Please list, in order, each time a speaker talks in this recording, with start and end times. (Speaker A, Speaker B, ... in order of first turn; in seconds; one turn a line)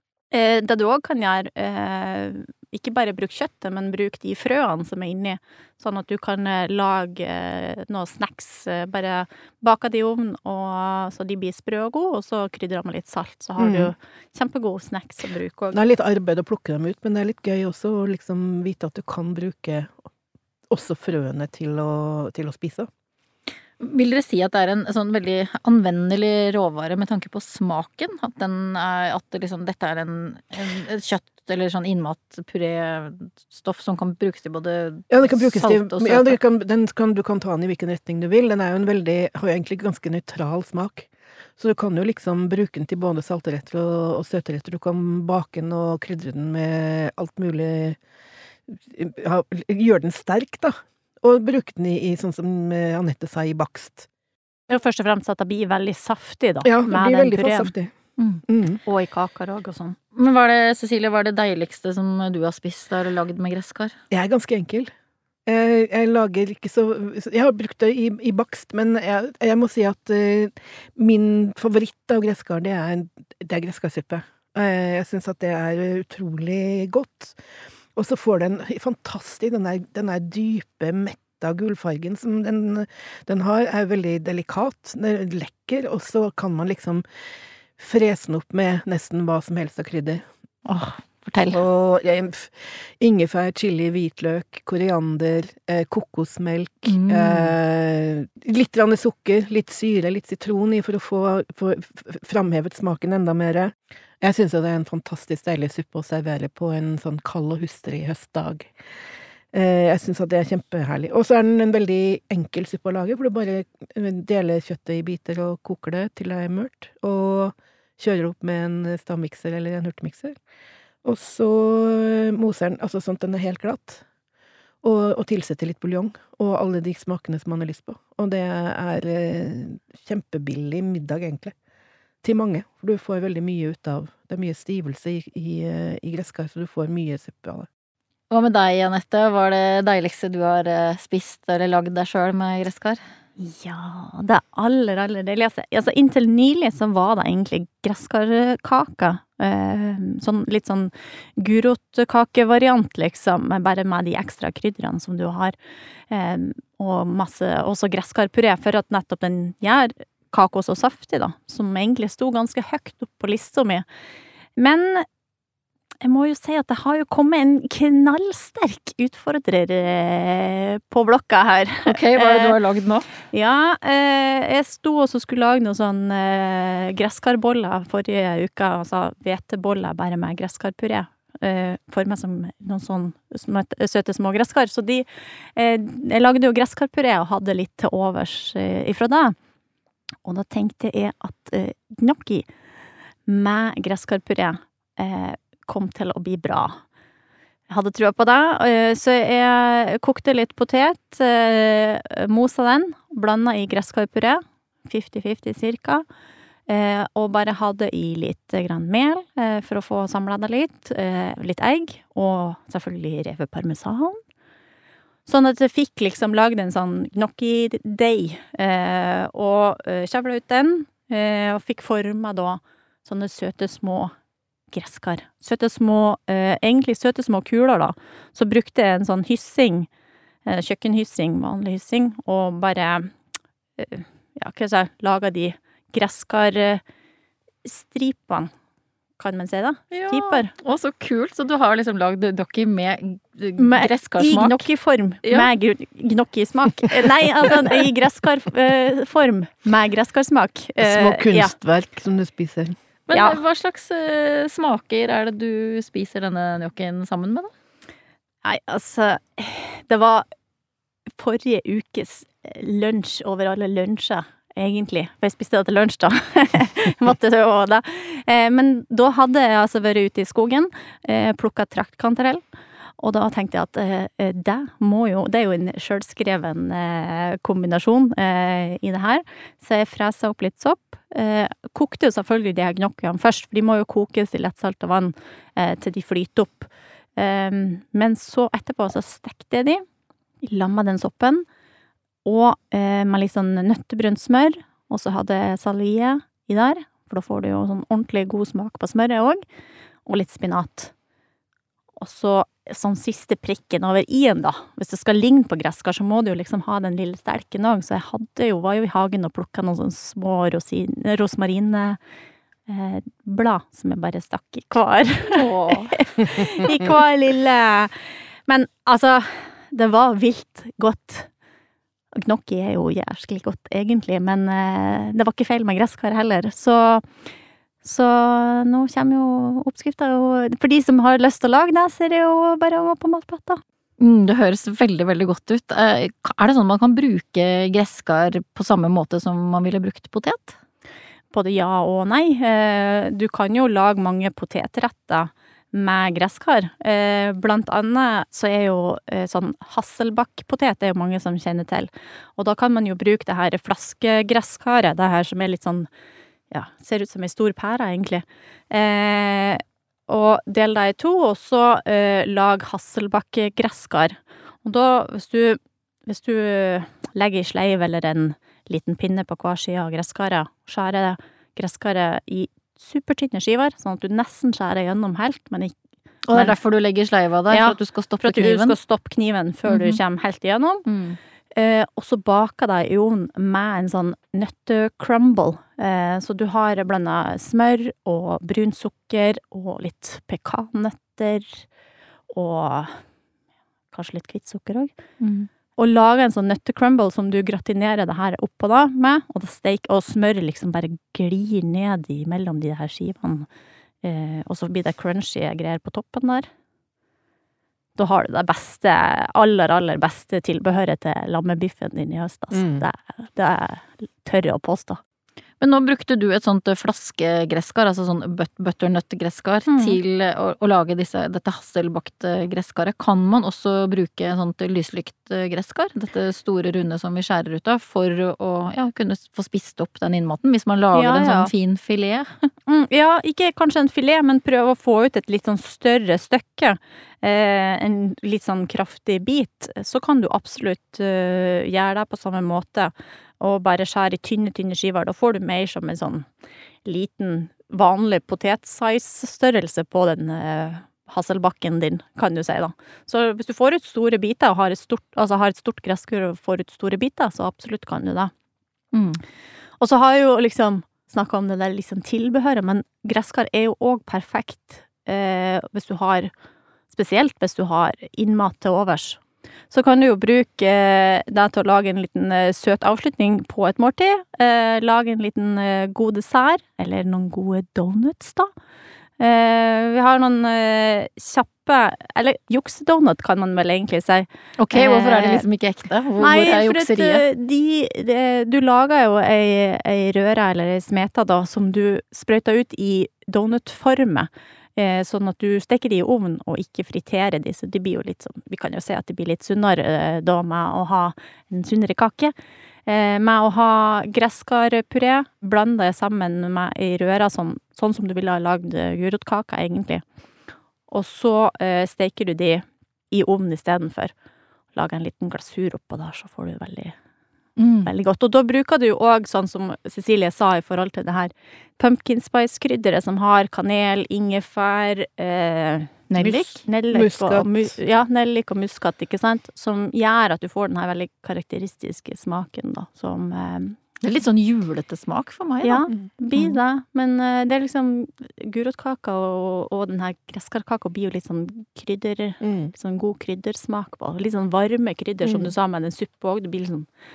Speaker A: 0.3-15.8
Speaker B: 13.6-13.9
Speaker B: 15.7-20.0
Speaker B: 20.7-22.9
Speaker C: 23.8-36.4
Speaker B: 35.1-48.0
Speaker B: 48.7-54.1
Speaker A: 54.7-57.7
Speaker B: 56.6-57.9
Speaker B: 58.5-58.8
Speaker A: 58.9-60.0
Speaker C: 60.1-63.9
Speaker B: 64.1-64.9
Speaker B: 65.5-77.3
Speaker B: 77.9-87.0
Speaker B: 87.8-90.2
Speaker C: 90.6-91.6
Speaker B: 91.5-108.7
Speaker C: 96.9-97.5
Speaker B: 109.5-120.3
Speaker B: 121.0-124.0
Speaker B: 124.8-131.5
Speaker B: 132.2-137.7
Speaker C: 138.3-143.0
Speaker A: 143.4-155.6
Speaker A: 156.1-163.8
Speaker A: 164.6-165.1
Speaker A: 166.0-172.6
Speaker C: 171.8-173.1
Speaker A: 173.3-189.3
Speaker A: 190.2-192.5
Speaker A: 193.3-196.8
Speaker A: 197.7-206.0
Speaker A: 206.7-214.2
Speaker A: 215.3-224.1
Speaker A: 224.7-229.9
Speaker A: 230.4-233.1
Speaker A: 233.8-236.8
Speaker A: 237.6-238.5
Speaker A: 239.2-240.5
Speaker C: 239.9-244.7
Speaker A: 243.6-251.5
Speaker B: 250.8-252.8
Speaker C: 253.1-257.5
Speaker A: 253.1-253.4
Speaker A: 258.4-260.2
Speaker A: 261.1-272.4
Speaker A: 273.0-289.8
Speaker A: 290.4-291.4
Speaker A: 292.2-299.4
Speaker A: 300.1-300.9
Speaker A: 302.0-312.0
Speaker A: 312.7-321.3
Speaker C: 315.3-316.0
Speaker A: 322.1-327.1
Speaker A: 327.8-333.6
Speaker C: 334.0-340.6
Speaker A: 341.3-355.9
Speaker A: 356.5-375.7
Speaker C: 376.3-378.7
Speaker A: 377.5-380.8
Speaker C: 379.6-380.0
Speaker C: 380.9-381.2
Speaker A: 381.5-391.7
Speaker A: 392.3-393.0
Speaker A: 393.9-394.9
Speaker C: 395.2-395.5
Speaker A: 395.8-403.5
Speaker A: 404.0-406.5
Speaker A: 407.9-415.0
Speaker B: 412.5-412.8
Speaker C: 415.6-432.5
Speaker A: 419.7-420.0
Speaker A: 430.9-431.5
Speaker A: 432.7-446.2
Speaker A: 446.8-458.3
Speaker C: 458.9-459.2
Speaker A: 459.8-466.3
Speaker A: 466.9-469.2
Speaker A: 469.7-478.5
Speaker A: 479.2-485.4
Speaker C: 484.6-487.2
Speaker A: 486.2-502.3
Speaker A: 502.9-510.0
Speaker A: 510.9-514.1
Speaker A: 514.7-516.9
Speaker C: 517.6-517.9
Speaker A: 517.8-533.8
Speaker C: 526.1-526.6
Speaker B: 526.9-527.7
Speaker C: 534.0-535.9
Speaker A: 535.6-546.9
Speaker B: 542.4-542.7
Speaker B: 545.2-545.5